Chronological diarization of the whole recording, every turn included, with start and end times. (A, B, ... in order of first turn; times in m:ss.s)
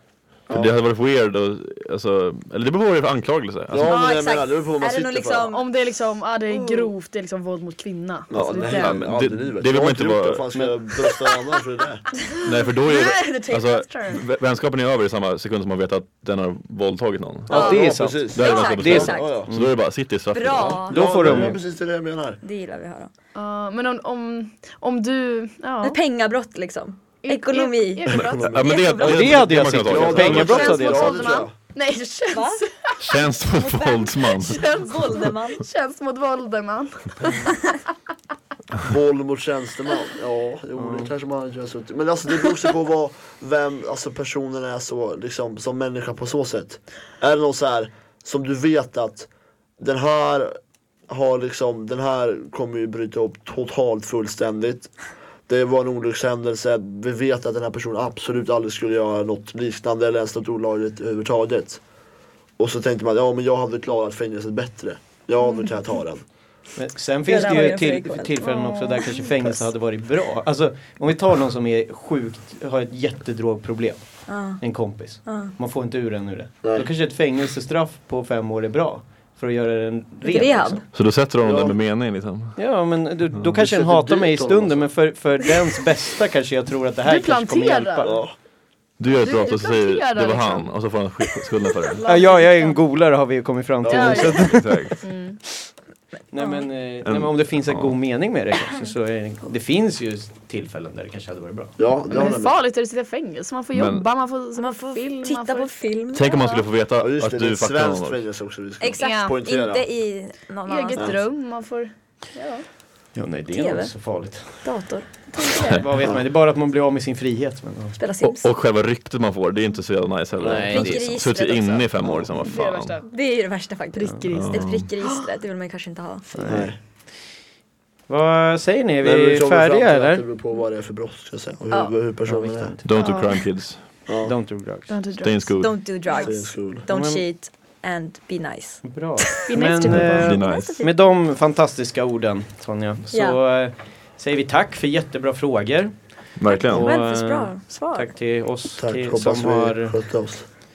0:00.5-0:04.0 A
0:03.7-0:05.5 B
0:03.8-0:05.7 C
0:05.5-0:09.0 D
0:06.5-0:06.9 C
0:08.3-0:12.0 B
0:08.6-0:10.7 A
0:12.4-0:21.5 A
0:12.8-0:14.2 C
0:12.9-0:13.5 D
0:17.5-0:19.5 B
0:17.5-0:19.8 E
0:17.5-0:19.4 C
0:20.3-0:21.0 C
0:20.8-0:21.6 E
0:20.8-0:22.4 B
0:22.4-0:23.1 C
0:23.3-0:26.0 D
0:25.8-0:29.4 C
0:27.2-0:28.8 D
0:28.1-0:30.9 A
0:28.4-0:28.9 B
0:29.0-0:31.3 E
0:29.8-0:31.5 B
0:30.2-0:32.9 D
0:30.8-0:31.3 C
0:32.3-0:32.6 C
0:33.0-0:34.7 A
0:33.5-0:35.7 C
0:35.6-0:37.6 D
0:38.8-0:54.9 B
0:40.8-0:41.1 E
0:55.5-1:01.8 B
1:02.6-1:06.2 B
1:06.8-1:20.8 E
1:07.3-1:09.6 C
1:08.4-1:09.0 D
1:14.3-1:14.6 C
1:15.2-1:15.5 C
1:20.2-1:20.8 C
1:20.9-1:22.6 A
1:21.4-1:21.8 B
1:22.6-1:28.2 E
1:23.6-1:24.9 B
1:27.0-1:28.1 D
1:28.0-1:28.3 B
1:29.0-1:32.0 A
1:29.1-1:30.7 D
1:31.9-1:32.8 D
1:32.0-1:35.0 E
1:33.8-1:34.4 B
1:33.9-1:35.4 D
1:34.4-1:35.0 A
1:36.3-1:41.8 E
1:36.4-1:36.6 C
1:37.0-1:37.9 A
1:41.8-1:42.6 B
1:42.1-1:45.7 D
1:43.7-1:44.0 A
1:44.6-1:46.7 C
1:46.1-1:48.2 A
1:47.0-1:49.8 B
1:48.8-1:51.1 C
1:49.0-1:49.4 D
1:50.7-1:52.6 D
1:50.9-1:51.2 B
1:53.1-1:54.8 E
1:53.5-1:55.8 C
1:55.3-1:55.8 D
1:55.8-1:58.0 E
1:55.9-1:56.2 B
1:58.0-1:58.5 C
1:58.2-2:03.0 A
2:00.4-2:01.2 E
2:00.4-2:00.7 B
2:00.7-2:01.9 C
2:02.0-2:02.3 B
2:02.4-2:03.1 D
2:03.0-2:06.5 C
2:03.9-2:05.2 D
2:04.3-2:04.9 A
2:06.3-2:06.7 E
2:06.5-2:06.8 B
2:08.1-2:10.2 E
2:09.0-2:12.7 B
2:12.2-2:12.8 E
2:12.8-2:14.0 A
2:12.9-2:13.4 D
2:14.1-2:14.3 B
2:14.2-2:15.0 E
2:14.9-2:15.6 D
2:15.1-2:15.8 A
2:15.6-2:19.3 C
2:16.1-2:16.8 B
2:16.9-2:17.2 E
2:18.8-2:30.0 E
2:19.5-2:20.4 D
2:19.9-2:20.8 A
2:20.3-2:20.9 C
2:23.1-2:23.4 C
2:26.4-2:26.9 A
2:26.7-2:28.1 C
2:28.8-2:30.4 B